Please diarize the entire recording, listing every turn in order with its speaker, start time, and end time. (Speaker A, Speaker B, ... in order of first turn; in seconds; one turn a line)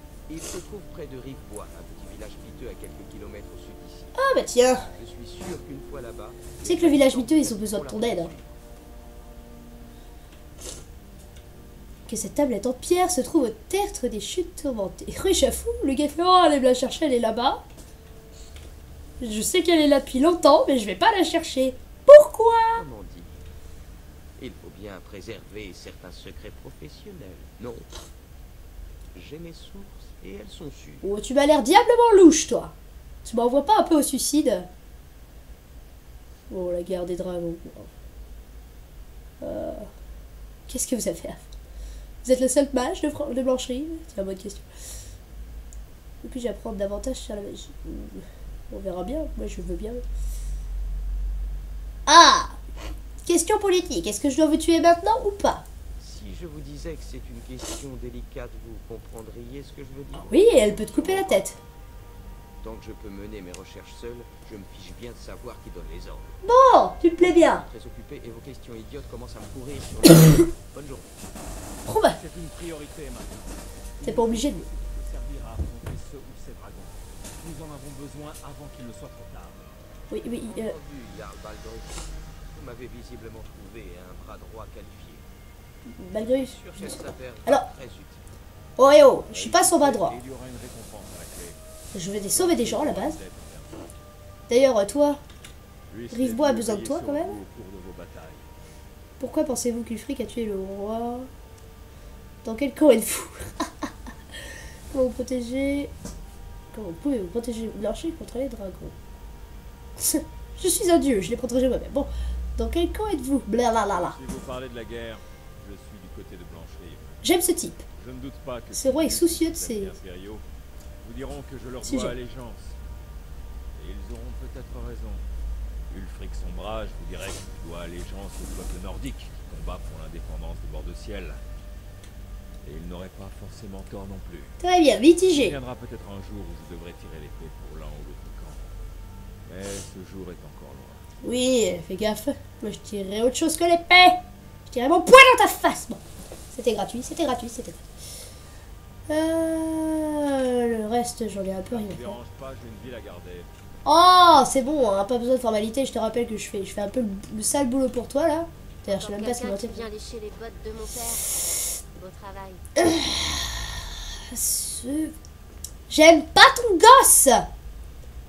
Speaker A: 0.3-4.2
Speaker B: 4.1-4.9
Speaker A: 4.9-8.5
Speaker B: 6.6-8.3
Speaker B: 12.1-17.6
Speaker B: 19.2-22.8
Speaker A: 22.7-23.4
Speaker A: 24.4-28.0
Speaker A: 29.1-31.0
Speaker B: 31.0-34.7
Speaker B: 36.5-37.9
Speaker B: 39.4-39.9
Speaker B: 40.7-41.4
Speaker B: 42.2-44.6
Speaker B: 46.2-50.0
Speaker B: 52.0-52.6
Speaker B: 53.2-55.6
Speaker A: 56.0-61.5
Speaker B: 60.3-61.6
Speaker A: 62.6-66.4
Speaker B: 66.4-67.6
Speaker A: 67.2-71.2
Speaker B: 71.8-72.2
Speaker C: 72.2-79.7
Speaker B: 74.0-74.7
Speaker B: 80.1-80.7
Speaker A: 80.3-85.2
Speaker B: 85.9-87.7
Speaker A: 86.2-88.2
Speaker B: 88.8-90.2
Speaker C: 89.3-91.6
Speaker B: 91.9-93.2
Speaker C: 92.3-93.7
Speaker B: 94.5-95.2
Speaker C: 95.9-98.4
Speaker B: 96.1-97.4
Speaker B: 99.2-101.3
Speaker B: 102.4-103.9
Speaker B: 104.9-105.9
Speaker B: 106.7-108.9
Speaker B: 110.0-114.2
Speaker C: 113.9-117.1
Speaker B: 117.2-117.8
Speaker C: 118.0-120.4
Speaker B: 118.7-120.0
Speaker C: 121.0-122.8
Speaker B: 121.8-122.2
Speaker C: 123.8-125.2
Speaker C: 125.9-131.4
Speaker C: 132.6-134.5
Speaker B: 134.6-135.6
Speaker C: 135.4-138.6
Speaker C: 139.5-141.0
Speaker B: 141.2-146.0
Speaker B: 146.5-147.8
Speaker B: 149.1-152.2
Speaker C: 151.7-153.5
Speaker B: 153.8-159.9
Speaker D: 158.8-161.4
Speaker D: 161.9-162.6
Speaker B: 162.8-165.1
Speaker B: 165.9-167.4